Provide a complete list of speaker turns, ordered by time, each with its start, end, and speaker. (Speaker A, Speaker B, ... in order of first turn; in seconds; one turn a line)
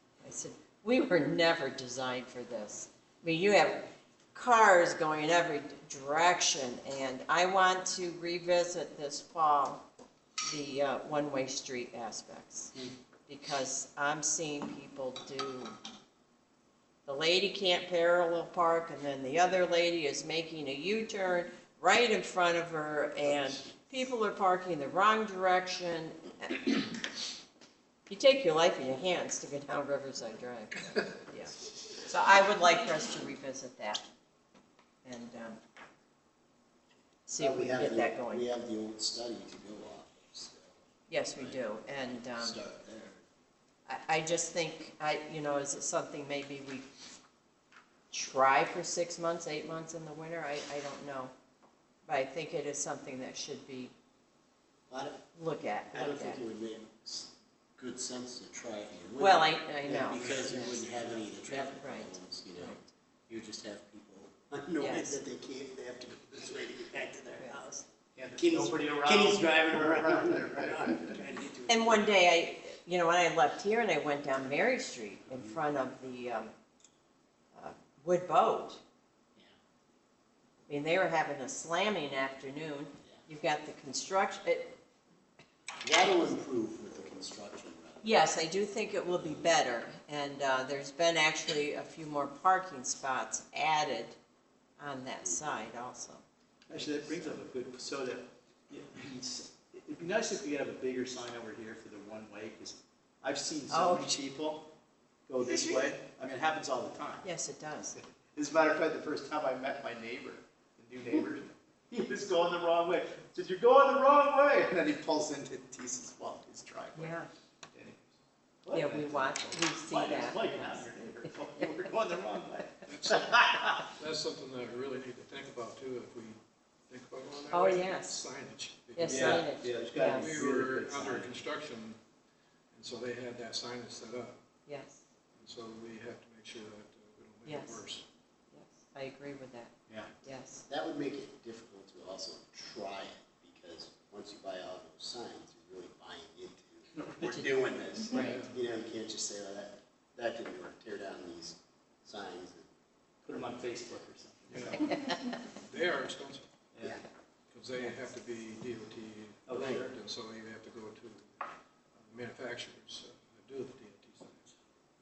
Speaker A: 0.2-9.8
Speaker A: 10.4-12.7
Speaker A: 13.3-15.7
Speaker A: 17.1-27.0
Speaker A: 28.1-34.0
Speaker A: 35.0-35.6
Speaker A: 37.3-38.5
Speaker B: 37.4-40.8
Speaker A: 41.1-42.5
Speaker B: 41.4-43.2
Speaker A: 43.9-46.9
Speaker A: 48.1-51.3
Speaker A: 52.0-53.9
Speaker B: 54.9-55.2
Speaker A: 55.3-56.4
Speaker B: 55.9-67.6
Speaker A: 59.2-60.8
Speaker C: 60.2-60.5
Speaker A: 61.4-62.9
Speaker A: 64.8-65.2
Speaker A: 67.4-67.8
Speaker C: 68.1-71.1
Speaker B: 68.3-72.1
Speaker A: 71.7-76.5
Speaker A: 77.5-78.8
Speaker A: 80.7-84.8
Speaker B: 85.8-89.5
Speaker A: 88.0-94.2
Speaker A: 94.8-96.2
Speaker B: 95.2-95.6
Speaker C: 96.7-104.7
Speaker A: 103.7-104.1
Speaker C: 105.3-107.2
Speaker A: 105.4-105.8
Speaker A: 107.2-108.0
Speaker C: 108.3-117.2
Speaker A: 117.0-117.3
Speaker C: 117.7-123.9
Speaker A: 118.7-121.9
Speaker D: 122.9-123.3
Speaker D: 124.0-126.4
Speaker D: 126.9-132.0
Speaker A: 127.5-128.2
Speaker A: 128.9-130.3
Speaker C: 129.0-131.4
Speaker D: 132.7-134.4
Speaker A: 134.7-135.0
Speaker D: 135.3-138.0
Speaker A: 137.4-137.8
Speaker A: 138.5-140.6
Speaker B: 140.7-152.7
Speaker C: 147.0-147.3
Speaker A: 147.2-147.6
Speaker A: 148.1-148.4
Speaker D: 148.1-148.5
Speaker C: 153.2-154.9
Speaker D: 154.5-156.4
Speaker C: 156.7-157.0
Speaker D: 157.5-161.4
Speaker C: 159.5-159.9
Speaker D: 161.9-164.6